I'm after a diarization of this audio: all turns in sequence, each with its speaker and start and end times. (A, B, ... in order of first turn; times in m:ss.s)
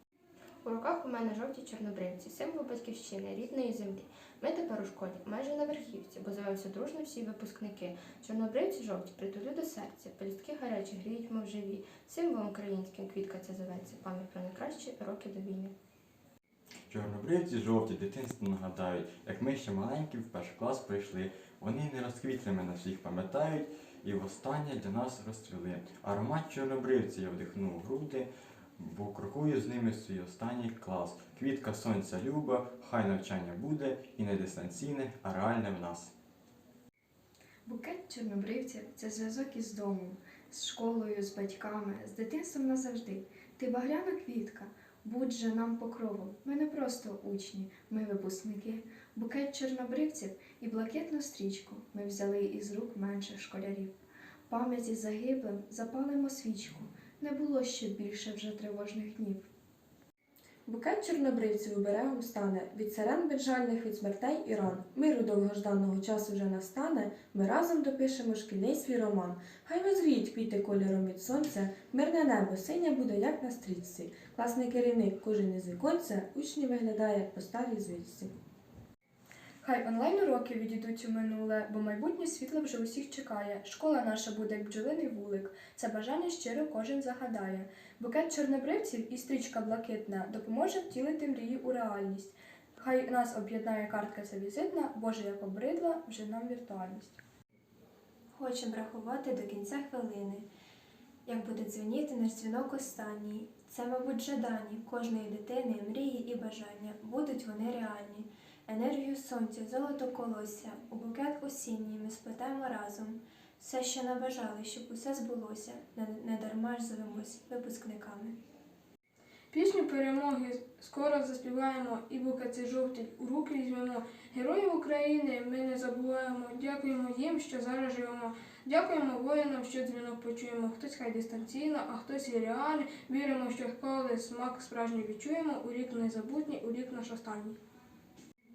0:00.6-0:15.7 A
0:16.9-0:28.3 B
0:28.8-0:36.1 B
0:37.7-0:53.9 C
0:54.5-0:59.5 C
1:00.7-1:18.3 D
1:19.6-1:37.2 E
1:38.3-1:40.4 F
1:41.3-1:58.4 F
1:59.5-2:17.6 G